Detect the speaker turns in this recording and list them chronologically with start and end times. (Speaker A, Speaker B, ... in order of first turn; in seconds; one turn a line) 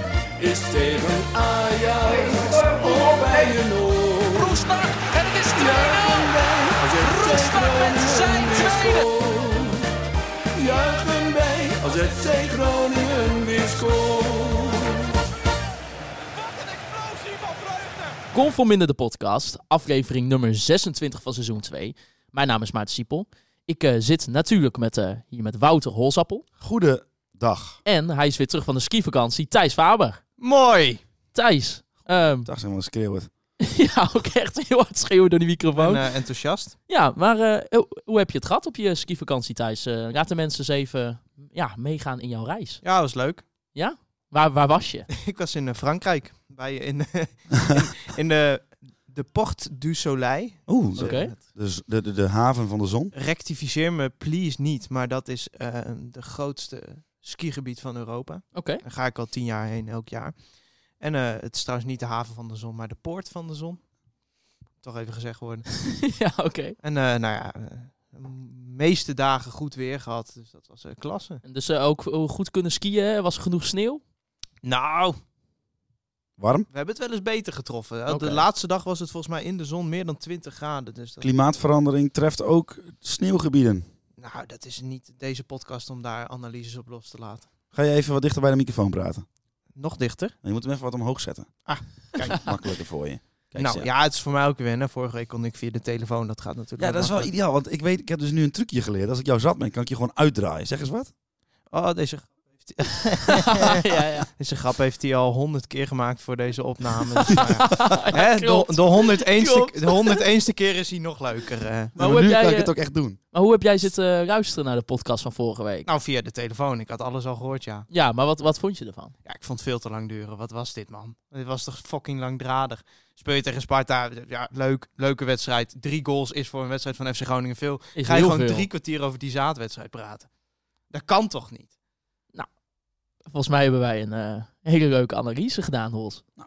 Speaker A: 0.4-4.7
Speaker B: 4.4-6.3
Speaker A: 5.5-9.9
Speaker B: 6.9-9.1
Speaker A: 10.6-15.1
Speaker B: 17.1-17.8
Speaker C: 18.3-26.5
Speaker D: 26.6-27.8
Speaker C: 27.9-30.2
Speaker E: 30.4-31.0
Speaker C: 31.3-32.5
Speaker D: 32.5-33.3
Speaker C: 33.6-36.1
Speaker E: 35.8-36.8
Speaker C: 36.9-42.8
Speaker E: 42.8-43.4
Speaker C: 43.7-45.1
Speaker E: 45.1-51.4
Speaker D: 50.7-53.1
Speaker C: 51.0-51.3
Speaker E: 53.1-60.4
Speaker C: 58.5-58.8
Speaker E: 61.0-63.8
Speaker E: 64.8-65.7
Speaker C: 65.8-66.8
Speaker E: 66.8-71.4
Speaker C: 71.4-74.0
Speaker E: 74.6-75.2
Speaker D: 76.4-76.7
Speaker E: 76.7-81.3
Speaker C: 78.1-78.4
Speaker D: 81.2-83.8
Speaker E: 84.2-87.5
Speaker D: 87.7-89.2
Speaker E: 89.8-90.3
Speaker D: 90.4-91.5
Speaker E: 91.7-92.5
Speaker D: 92.3-93.9
Speaker E: 93.6-97.3
Speaker D: 96.8-101.1
Speaker E: 101.7-112.0
Speaker C: 103.3-104.3
Speaker C: 107.3-110.2
Speaker D: 112.0-113.2
Speaker C: 112.0-112.7
Speaker C: 113.3-115.9
Speaker E: 115.9-117.9
Speaker C: 117.9-119.1
Speaker E: 119.3-130.3
Speaker C: 128.0-128.7
Speaker E: 130.9-131.7
Speaker C: 133.3-136.2